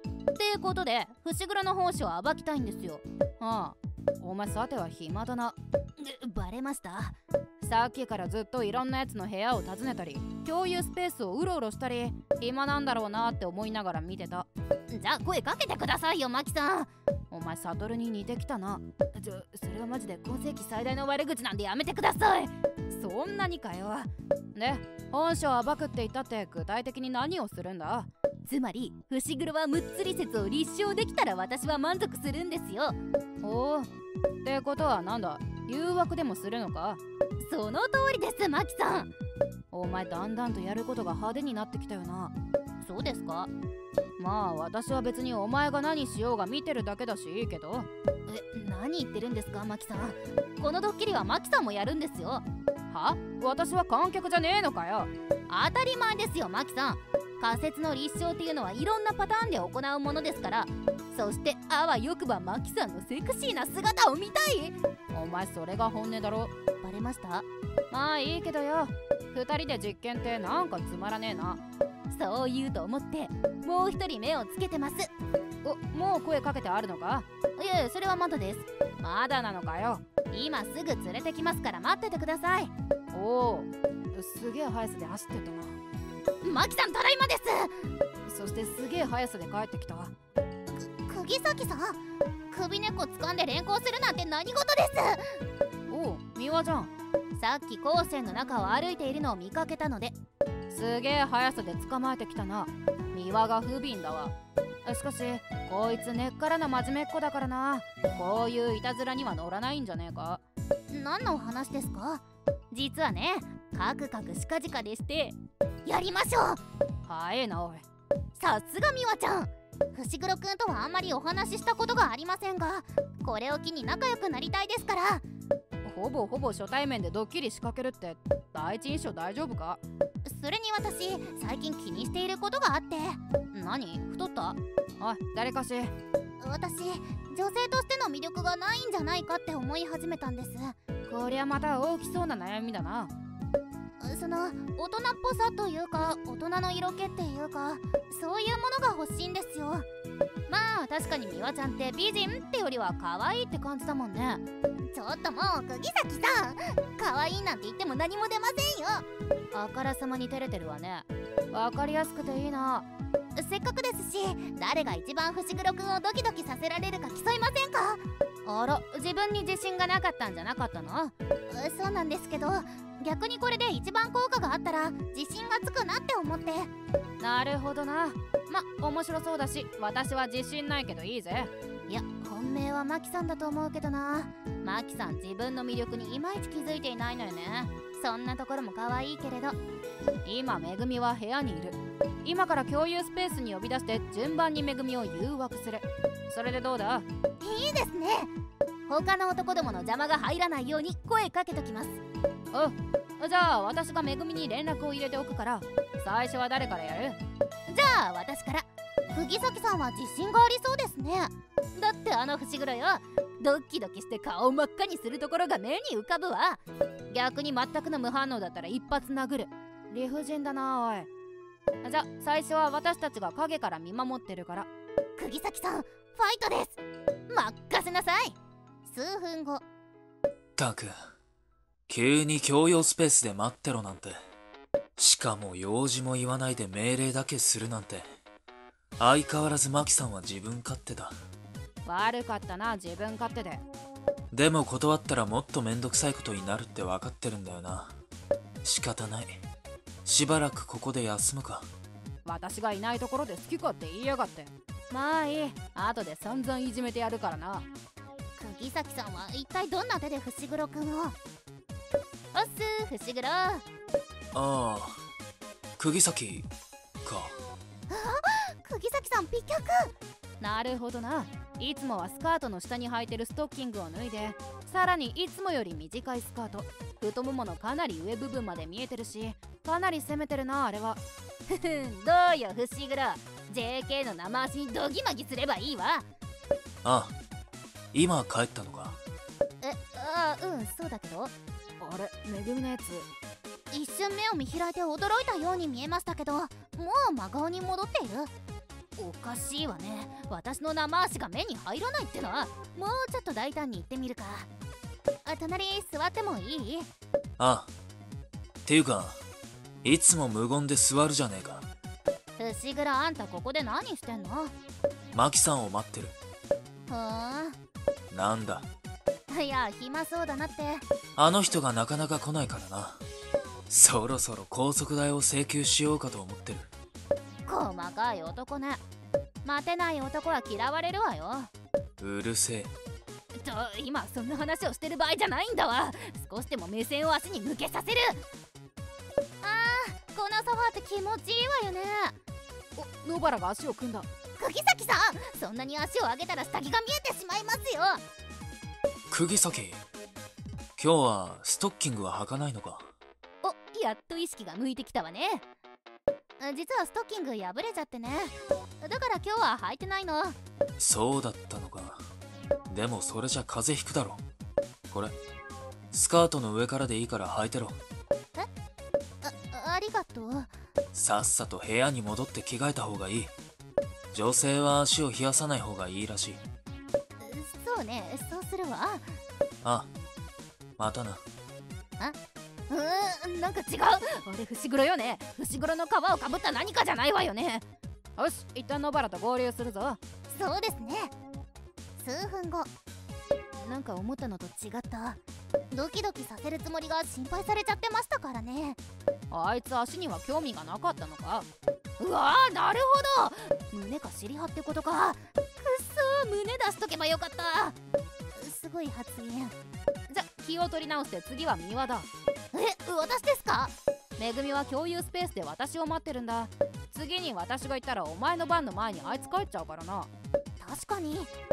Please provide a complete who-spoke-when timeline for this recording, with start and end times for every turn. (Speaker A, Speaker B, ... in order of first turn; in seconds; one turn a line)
Speaker A: 0.3-33.9
Speaker A: 34.4-39.1
Speaker A: 39.7-43.5
Speaker A: 44.2-75.1
Speaker A: 75.6-85.8
Speaker A: 86.4-90.1
Speaker A: 91.0-100.1
Speaker A: 100.7-104.3
Speaker A: 104.8-117.8
Speaker A: 118.3-125.2
Speaker A: 125.8-143.1
Speaker A: 144.0-149.8
Speaker A: 150.5-189.6
Speaker A: 190.2-198.3
Speaker A: 198.9-202.0
Speaker A: 202.5-221.1
Speaker A: 221.8-226.8
Speaker A: 227.3-229.6
Speaker B: 230.6-231.0
Speaker B: 231.9-234.2
Speaker B: 235.0-238.1
Speaker B: 239.0-241.1
Speaker A: 241.8-243.6
Speaker B: 244.3-247.9
Speaker B: 248.6-249.4
Speaker B: 250.0-251.7
Speaker A: 252.2-257.7
Speaker A: 258.4-261.1
Speaker A: 262.3-263.6
Speaker B: 264.3-265.0
Speaker B: 265.8-266.5
Speaker B: 267.0-267.3
Speaker A: 267.9-286.1
Speaker B: 286.8-287.1
Speaker B: 287.9-289.0
Speaker A: 289.6-293.1
Speaker A: 293.7-298.3
Speaker A: 299.0-304.5
Speaker A: 305.2-306.9
Speaker B: 307.4-307.7
Speaker B: 308.6-309.2
Speaker B: 309.8-311.7
Speaker A: 312.4-314.5
Speaker B: 315.1-316.1
Speaker A: 316.9-317.6
Speaker B: 318.1-318.7
Speaker A: 319.3-320.8
Speaker B: 321.2-323.0
Speaker B: 323.7-326.7
Speaker A: 327.5-328.8
Speaker A: 329.4-331.5
Speaker B: 332.0-332.7
Speaker A: 333.4-338.2
Speaker A: 339.4-342.2
Speaker A: 342.8-348.0
Speaker B: 349.1-349.8
Speaker B: 350.8-352.9
Speaker A: 353.4-355.4
Speaker A: 356.4-360.4
Speaker B: 360.8-362.0
Speaker B: 362.7-364.2
Speaker B: 365.9-367.8
Speaker A: 369.2-370.5
Speaker B: 370.9-373.3
Speaker B: 374.1-376.4
Speaker A: 377.2-379.1
Speaker B: 379.6-379.9
Speaker B: 380.8-381.2
Speaker A: 382.7-387.6
Speaker A: 388.2-391.1
Speaker A: 392.0-392.7
Speaker A: 393.6-395.2
Speaker A: 395.7-398.8
Speaker A: 399.3-401.5
Speaker A: 402.0-407.7
Speaker A: 408.4-409.5
Speaker A: 410.1-421.3